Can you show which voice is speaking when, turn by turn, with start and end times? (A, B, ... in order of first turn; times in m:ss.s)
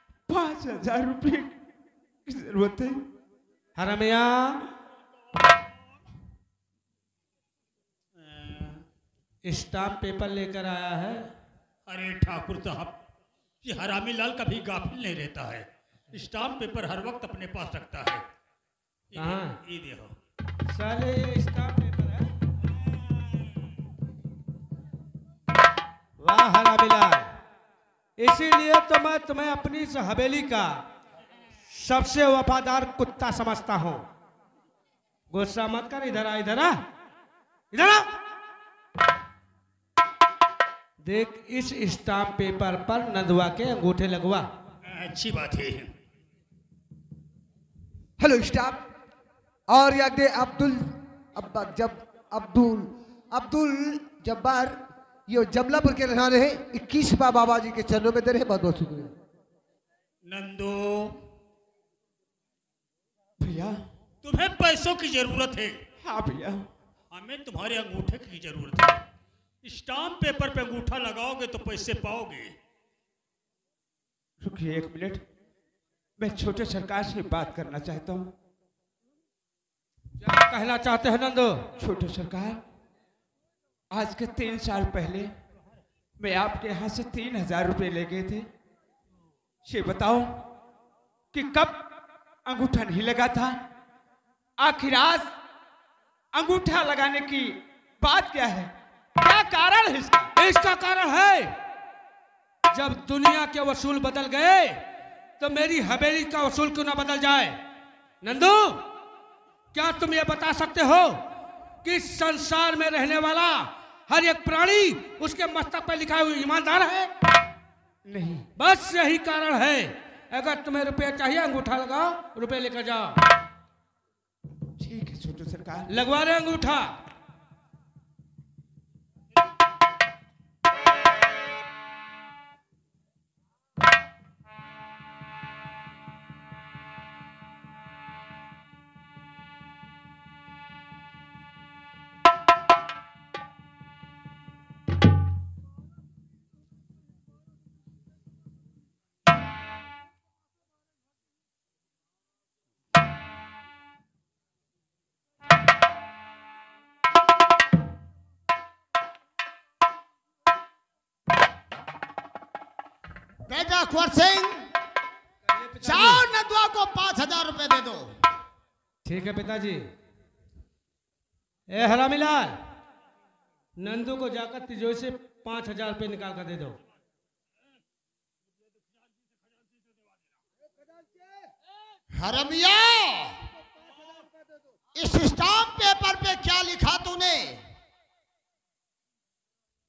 0:00.3-0:01.5 A
0:02.3-0:03.0 A
0:03.8-0:04.6 B
0:08.2-0:08.8 C
0:09.4-0:11.3 B
0:11.9-0:13.0 C
0:13.6-0:18.2 C
0:19.1-0:20.2 C
0:19.2-0:19.6 B
0:20.7-0:22.3 B
0:26.2-0:27.3 B
0:28.2-0:30.7 B
0:31.7-0:34.0 B
0:35.3-0:36.8 B
0:37.7-0:38.1 B
0:41.0-0:44.5 B
0:44.8-0:45.9 C
0:48.2-0:48.9 D
0:49.7-0:59.1 D
1:00.2-1:01.2 C
1:03.4-1:03.8 A
1:04.2-1:05.8 C
1:06.0-1:06.7 A
1:07.1-1:09.0 C
1:09.6-1:12.5 C
1:14.4-1:15.2 A
1:16.2-1:18.3 A
1:20.2-1:21.6 B
1:21.8-1:22.6 A
1:23.9-1:25.3 A
1:26.2-1:28.5 A
1:29.7-1:30.4 A
1:31.3-1:31.8 A
1:32.5-1:33.6 A
1:34.6-1:35.3 A
1:36.3-1:40.3 A
1:40.4-1:41.5 B
1:42.7-1:44.8 B
1:45.4-1:47.6 B
1:48.2-1:48.8 B
1:49.7-1:51.2 B
1:51.8-1:57.1 B
1:58.1-1:58.5 A
1:58.6-2:03.2 B
2:04.8-2:05.9 A
2:05.9-2:06.9 B
2:43.5-2:44.7 E
2:45.5-2:46.2 B
2:45.8-2:48.1 E
2:49.1-2:49.8 B
2:51.7-2:52.6 B
2:53.8-2:56.8 B
3:02.1-3:03.4 E
3:05.0-3:07.6 E